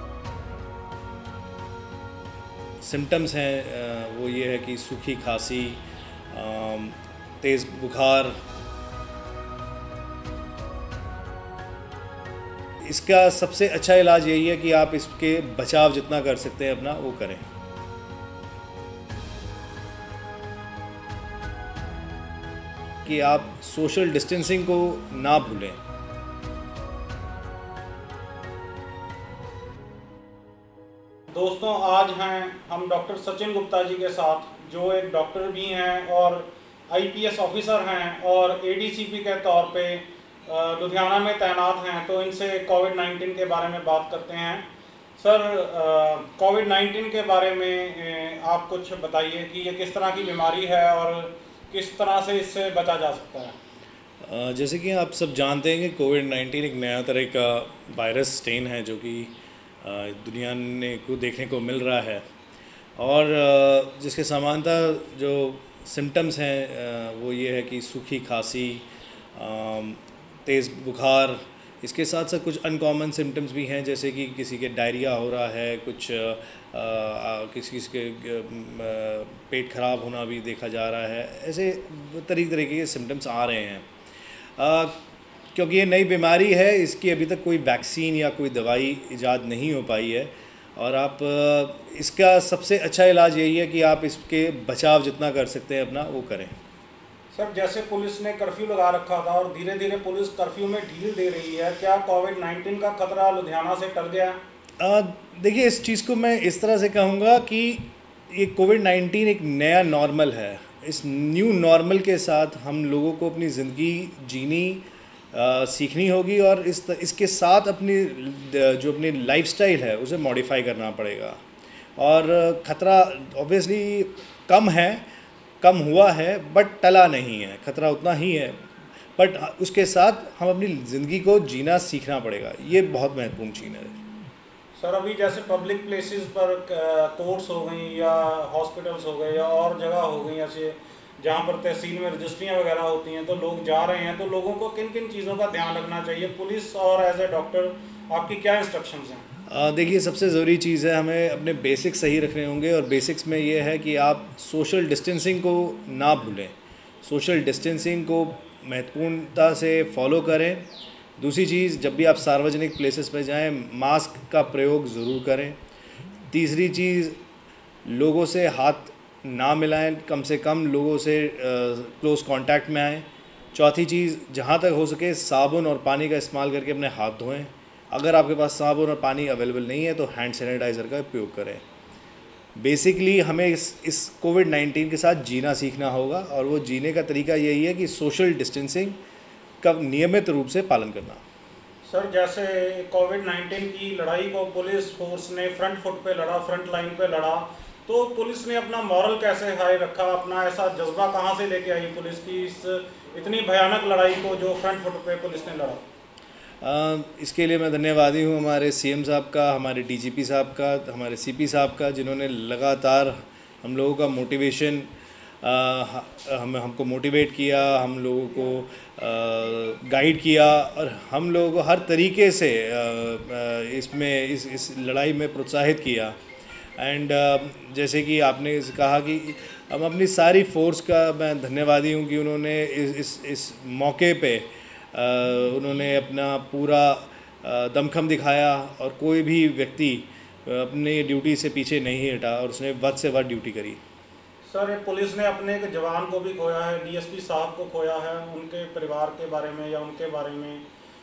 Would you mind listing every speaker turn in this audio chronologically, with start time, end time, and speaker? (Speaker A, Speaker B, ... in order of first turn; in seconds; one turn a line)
Speaker A: 2.8-8.4
Speaker A: 12.8-17.4
Speaker A: 23.0-25.8
Speaker B: 31.3-53.5
Speaker A: 54.2-62.2
Speaker A: 63.0-83.8
Speaker A: 84.6-85.0
Speaker A: 85.5-96.5
Speaker B: 97.3-104.4
Speaker A: 104.8-121.4
Speaker A: 122.0-125.0
Speaker A: 125.6-128.6
Speaker A: 129.2-134.0
Speaker B: 134.8-149.2
Speaker A: 149.5-160.7
Speaker A: 161.2-165.6
Speaker A: 166.3-167.2
Speaker A: 167.8-181.6
Speaker A: 182.6-189.0
Speaker A: 189.6-191.2
Speaker B: 191.8-205.8
Speaker A: 206.6-214.9
Speaker A: 215.4-226.2
Speaker A: 226.8-243.8
Speaker B: 244.4-250.6